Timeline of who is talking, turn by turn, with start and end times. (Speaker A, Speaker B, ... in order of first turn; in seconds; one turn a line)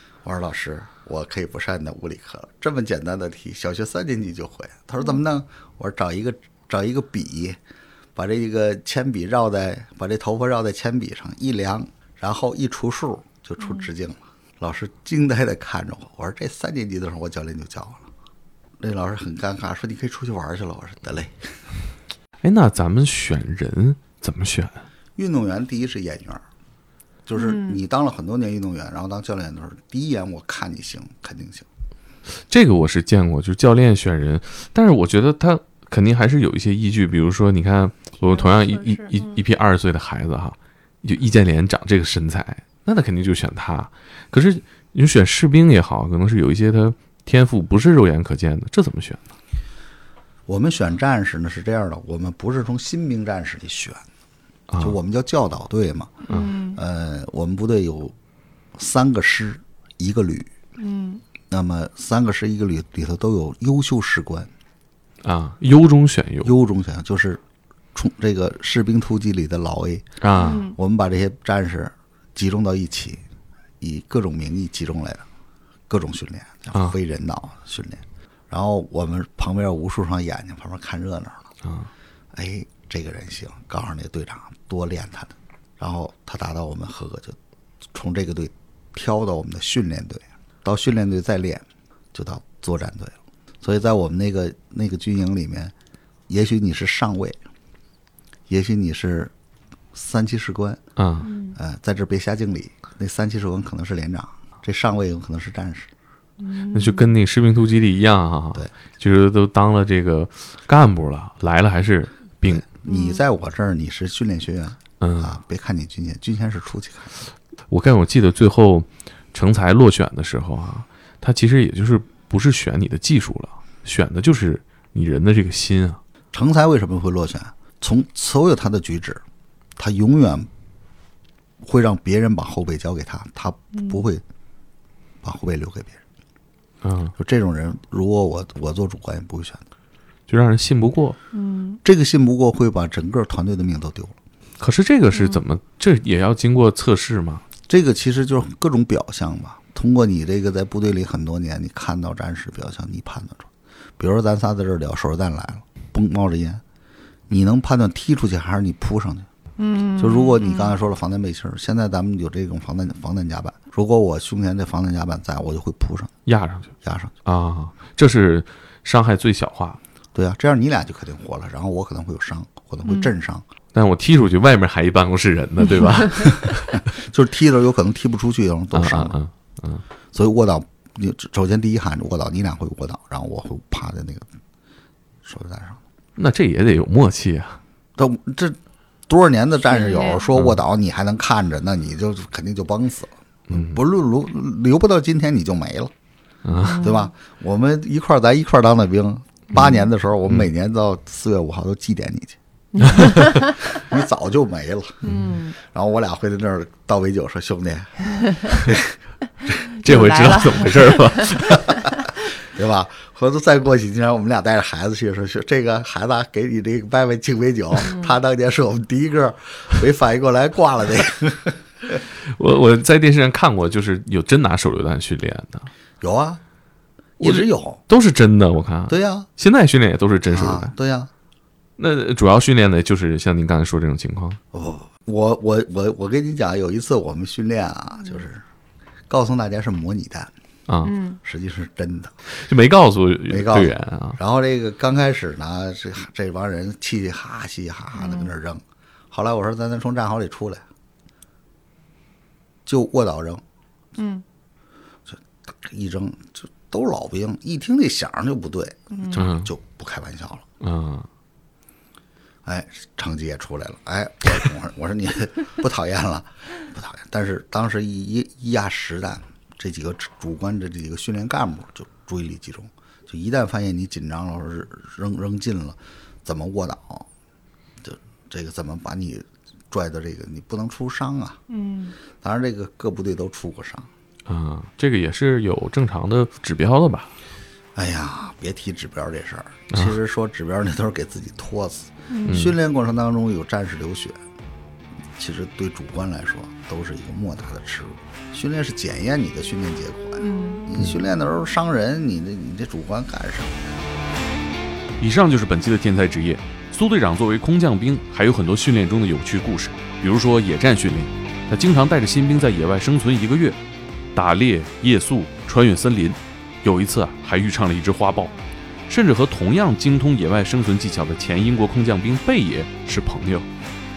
Speaker A: 0.2-7.6
Speaker A: 8.2-18.1
Speaker B: 13.6-13.9
Speaker A: 18.8-21.3
Speaker C: 22.4-24.9
Speaker A: 25.1-26.4
Speaker A: 27.2-31.6
Speaker B: 27.4-27.8
Speaker C: 32.5-49.3
Speaker B: 38.2-39.4
Speaker A: 50.5-54.0
Speaker C: 54.7-55.0
Speaker A: 54.8-56.1
Speaker B: 56.2-56.8
Speaker A: 56.7-58.1
Speaker A: 58.8-60.5
Speaker B: 60.8-61.2
Speaker A: 61.5-64.5
Speaker C: 65.2-66.5
Speaker A: 66.4-67.4
Speaker A: 67.9-70.0
Speaker C: 70.2-70.7
Speaker B: 70.3-70.8
Speaker A: 70.7-73.2
Speaker A: 73.8-75.2
Speaker A: 75.9-81.5
Speaker C: 81.6-81.9
Speaker A: 82.3-87.4
Speaker A: 87.9-95.7
Speaker A: 96.3-97.4
Speaker A: 98.5-99.3
Speaker A: 99.9-100.8
Speaker C: 101.0-101.3
Speaker B: 101.2-101.6
Speaker A: 101.5-105.9
Speaker B: 106.4-107.2
Speaker C: 106.7-112.7
Speaker A: 112.4-117.1
Speaker B: 112.8-113.2
Speaker C: 115.0-115.4
Speaker C: 117.7-126.0
Speaker A: 126.3-129.2
Speaker A: 129.8-130.5
Speaker A: 131.6-134.2
Speaker B: 133.7-134.0
Speaker A: 135.2-136.0
Speaker C: 136.8-137.1
Speaker A: 137.2-139.6
Speaker C: 140.3-141.2
Speaker B: 141.3-141.8
Speaker A: 141.8-144.2
Speaker C: 144.6-147.4
Speaker B: 145.1-145.4
Speaker A: 147.7-156.6
Speaker A: 157.3-159.3
Speaker B: 159.6-160.8
Speaker A: 160.0-166.1
Speaker C: 166.2-169.8
Speaker A: 166.8-167.1
Speaker A: 170.1-173.4
Speaker C: 173.7-176.9
Speaker A: 176.3-179.2
Speaker C: 178.7-179.8
Speaker A: 180.1-184.3
Speaker A: 185.2-185.8
Speaker C: 186.2-187.6
Speaker A: 188.0-195.9
Speaker B: 189.6-190.3
Speaker C: 193.5-193.8
Speaker C: 196.4-196.8
Speaker B: 196.6-197.1
Speaker A: 196.8-202.4
Speaker C: 199.5-200.5
Speaker B: 202.7-203.8
Speaker A: 202.9-205.0
Speaker B: 205.0-205.6
Speaker C: 205.1-205.3
Speaker A: 205.6-209.0
Speaker B: 208.1-208.6
Speaker B: 209.4-212.0
Speaker C: 209.8-211.8
Speaker A: 212.4-222.0
Speaker B: 217.8-218.2
Speaker C: 222.2-225.7
Speaker A: 226.0-226.4
Speaker A: 227.2-227.8
Speaker C: 227.2-230.7
Speaker A: 228.9-229.3
Speaker A: 230.3-231.1
Speaker C: 231.8-234.4
Speaker A: 234.5-238.4
Speaker A: 239.1-240.3
Speaker C: 240.7-241.0
Speaker B: 240.8-241.2
Speaker A: 241.2-242.1
Speaker C: 242.3-244.2
Speaker A: 243.3-250.6
Speaker B: 247.9-248.3
Speaker A: 252.7-253.4
Speaker B: 254.0-254.2
Speaker A: 255.1-260.4
Speaker B: 258.9-259.3
Speaker C: 259.1-259.5
Speaker C: 260.6-261.1
Speaker A: 262.4-277.1
Speaker A: 277.8-281.4
Speaker B: 281.5-281.9
Speaker A: 282.2-283.9
Speaker C: 284.3-287.1
Speaker A: 287.7-294.2
Speaker B: 292.1-292.5
Speaker C: 292.3-292.6
Speaker A: 295.2-303.5
Speaker B: 300.2-300.7
Speaker D: 305.0-313.6
Speaker C: 305.7-306.2
Speaker C: 308.5-309.3
Speaker D: 314.1-318.3
Speaker C: 314.2-315.0
Speaker C: 315.6-316.1
Speaker C: 316.7-318.2
Speaker D: 318.9-323.4
Speaker C: 319.0-319.3
Speaker C: 319.8-320.4
Speaker C: 322.0-322.3